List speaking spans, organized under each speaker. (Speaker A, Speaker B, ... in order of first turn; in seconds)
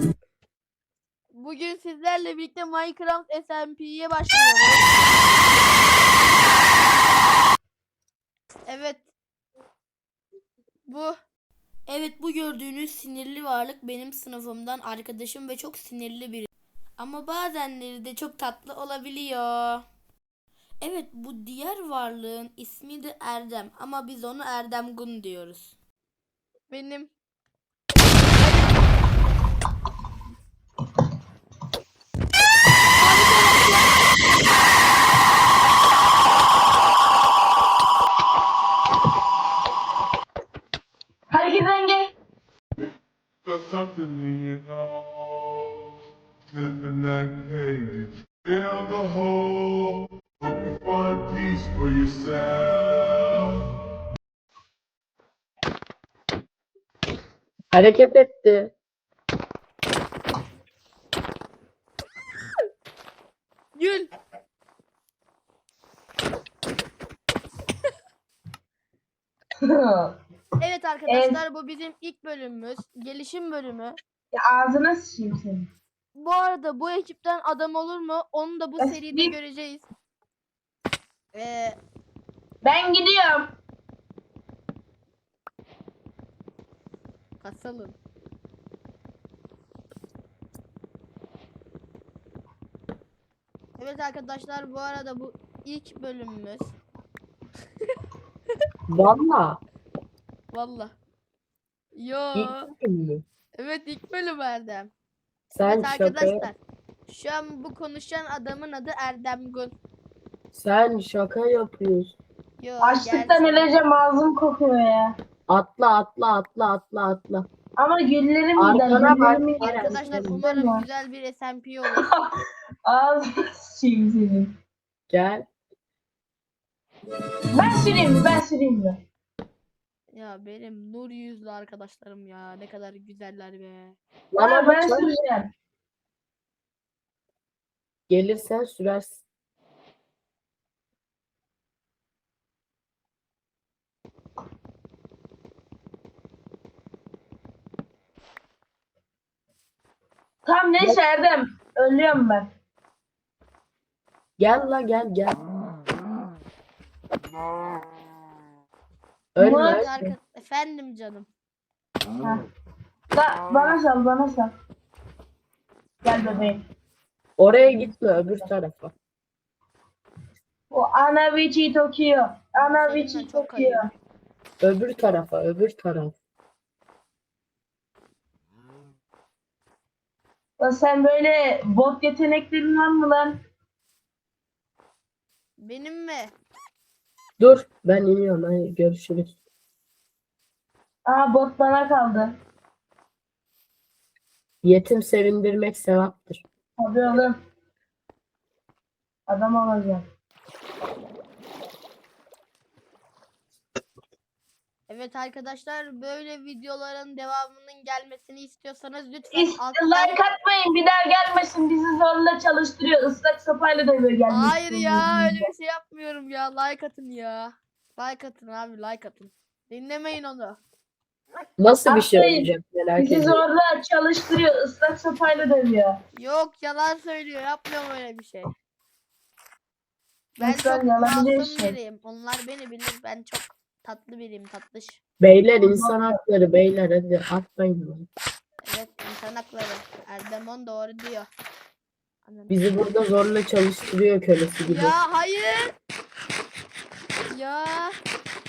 Speaker A: 1.3-4.9, 8.7-9.1, 10.9-11.2, 11.9-19.8, 20.8-25.8, 26.7-27.1, 28.4-28.7, 33.0-33.9, 63.7-64.1, 70.6-74.0, 76.1-79.8, 81.3-81.8, 87.4-88.0, 93.8-96.7, 100.5-100.9, 101.9-102.7, 103.6-104.9, 105.6-109.7, 112.6-113.7, 119.6-122.0, 130.1-134.0, 159.4-161.3, 172.6-173.9, 185.6-186.3, 204.9-210.2, 214.3-220.6, 226.2-228.5, 230.4-235.0, 238.7-241.3, 242.2-242.7, 244.6-245.7, 247.3-248.0
Speaker B: 41.3-42.1, 69.6-70.2, 71.1-71.4, 74.3-75.7, 78.8-79.3, 82.6-83.5, 112.8-115.1, 117.8-120.8, 121.9-122.3, 122.8-124.5, 127.5-129.0, 134.4-135.5, 150.4-152.5, 159.4-159.8, 162.2-162.5, 163.1-164.5, 166.0-166.6, 170.7-173.9, 180.6-183.4, 191.1-192.3, 196.8-197.4, 199.3-200.0, 209.3-215.4, 221.9-226.0, 230.4-231.8, 235.6-236.2
Speaker C: 43.5-45.8, 46.5-53.6
Speaker D: 57.7-58.7, 98.9-99.6, 102.3-103.2, 105.5-106.5, 110.5-112.2, 115.5-117.5, 118.6-120.4, 125.1-125.5, 134.3-135.1, 138.1-139.2, 154.4-155.4, 159.3-160.1, 167.4-168.9, 174.6-176.1, 187.4-189.3, 194.6-196.4, 221.6-223.4, 235.2-238.1, 242.5-244.9